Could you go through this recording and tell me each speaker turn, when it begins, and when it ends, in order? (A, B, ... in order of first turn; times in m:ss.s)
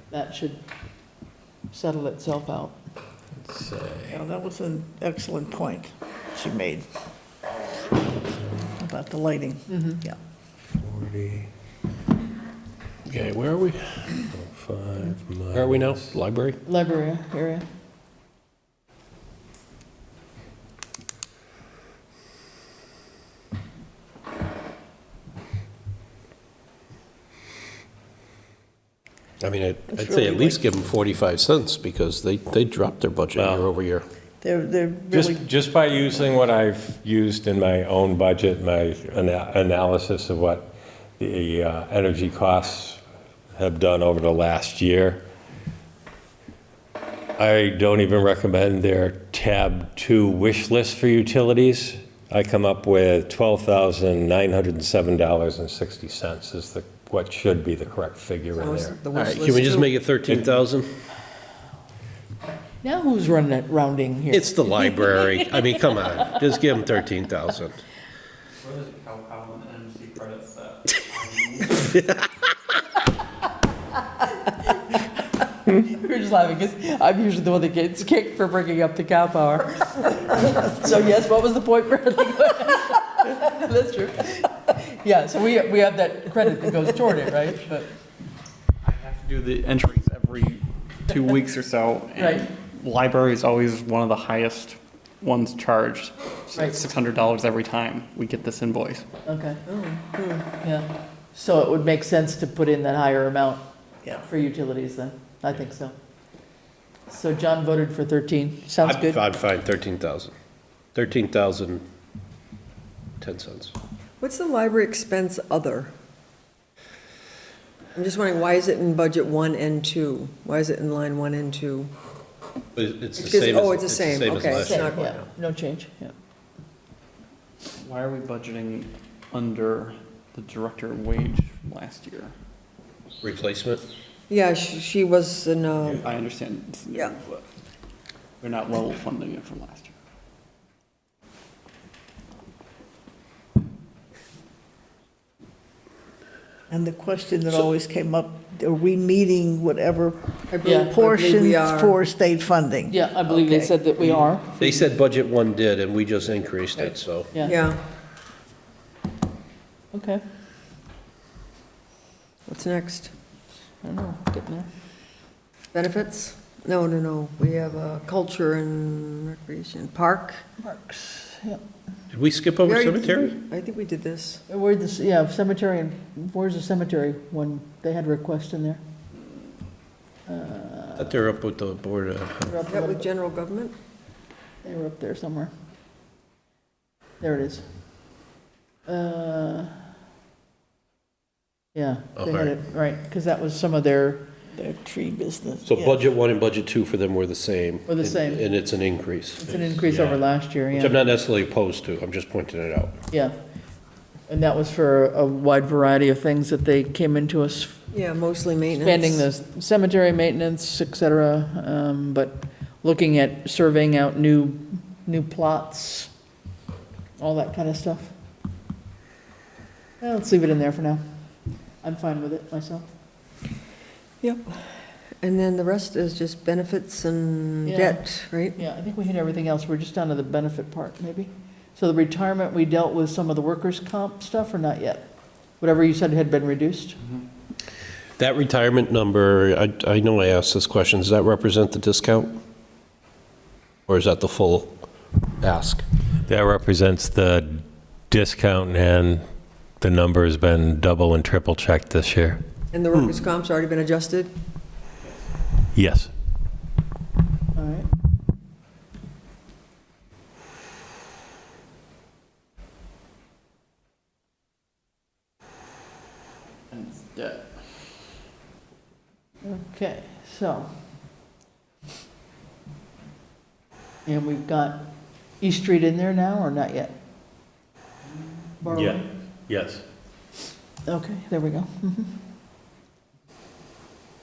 0:00.1-0:00.6 A
0:01.7-0:02.8 A
0:03.4-0:04.2 B
0:04.1-0:06.8 C
0:08.7-0:10.2 C
0:09.7-0:10.0 A
0:10.8-0:11.5 B
0:13.0-0:14.2 D
0:14.3-0:16.2 B
0:15.5-0:16.6 D
0:16.6-0:17.6 A
0:29.4-0:34.0 D
0:29.9-0:30.6 C
0:33.4-0:33.7 B
0:34.4-0:35.4 C
0:35.1-0:43.0 B
0:43.5-0:45.2 B
0:47.4-0:59.0 B
0:58.5-0:59.9 E
0:59.4-1:00.9 D
1:02.8-1:04.8 A
1:04.3-1:07.8 D
1:08.6-1:12.0 F
1:14.7-1:15.0 A
1:15.7-1:27.9 A
1:28.8-1:39.0 F
1:32.2-1:32.4 A
1:36.5-1:36.8 A
1:39.2-1:39.6 A
1:39.6-1:40.5 E
1:40.6-1:43.6 A
1:44.2-1:45.9 A
1:47.1-1:49.2 A
1:48.8-1:50.3 D
1:50.9-1:51.8 D
1:53.2-1:53.7 D
1:54.2-1:55.9 E
1:57.9-2:01.9 E
2:02.8-2:04.9 D
2:03.2-2:05.3 E
2:04.5-2:06.1 A
2:07.8-2:12.3 F
2:13.2-2:13.8 D
2:14.3-2:16.2 E
2:16.0-2:17.4 F
2:18.4-2:19.9 F
2:26.7-2:30.2 C
2:30.5-2:32.0 E
2:30.6-2:30.9 A
2:30.8-2:33.0 C
2:32.9-2:34.6 A
2:33.3-2:33.7 E
2:34.6-2:37.3 D
2:36.8-2:37.6 A
2:37.4-2:37.8 E
2:39.9-2:40.2 A
2:42.4-2:43.1 E
2:43.8-2:44.7 A
2:45.7-2:50.4 E
2:50.6-2:51.6 A
2:52.1-2:53.4 D
2:52.6-2:54.4 E
2:54.5-2:58.8 A
3:00.3-3:01.1 A
3:01.0-3:02.6 D
3:02.4-3:03.1 A
3:02.7-3:03.7 E
3:04.6-3:05.5 A
3:07.2-3:07.8 A
3:08.8-3:09.8 A
3:11.7-3:14.3 A
3:12.2-3:12.5 D
3:14.6-3:16.1 C
3:15.6-3:19.5 D
3:17.9-3:18.4 A
3:19.4-3:21.0 A
3:19.9-3:20.1 B
3:20.7-3:22.9 D
3:24.3-3:27.8 A
3:27.9-3:29.2 E
3:28.8-3:36.1 A
3:37.2-3:38.1 A
3:40.0-3:41.0 A
3:41.8-3:42.9 A
3:44.2-3:48.6 E
3:47.6-3:57.0 A
3:58.2-4:02.3 D
4:03.9-4:04.8 D
4:05.4-4:05.8 D
4:06.2-4:09.2 B
4:09.8-4:12.4 B
4:12.7-4:14.3 E
4:15.7-4:16.1 B
4:17.5-4:17.9 A
4:26.7-4:27.7 F
4:29.4-4:30.7 A
4:34.0-4:34.8 A
4:35.4-4:36.9 A
4:38.6-4:39.0 A
4:38.6-4:39.8 B
4:40.9-4:42.1 A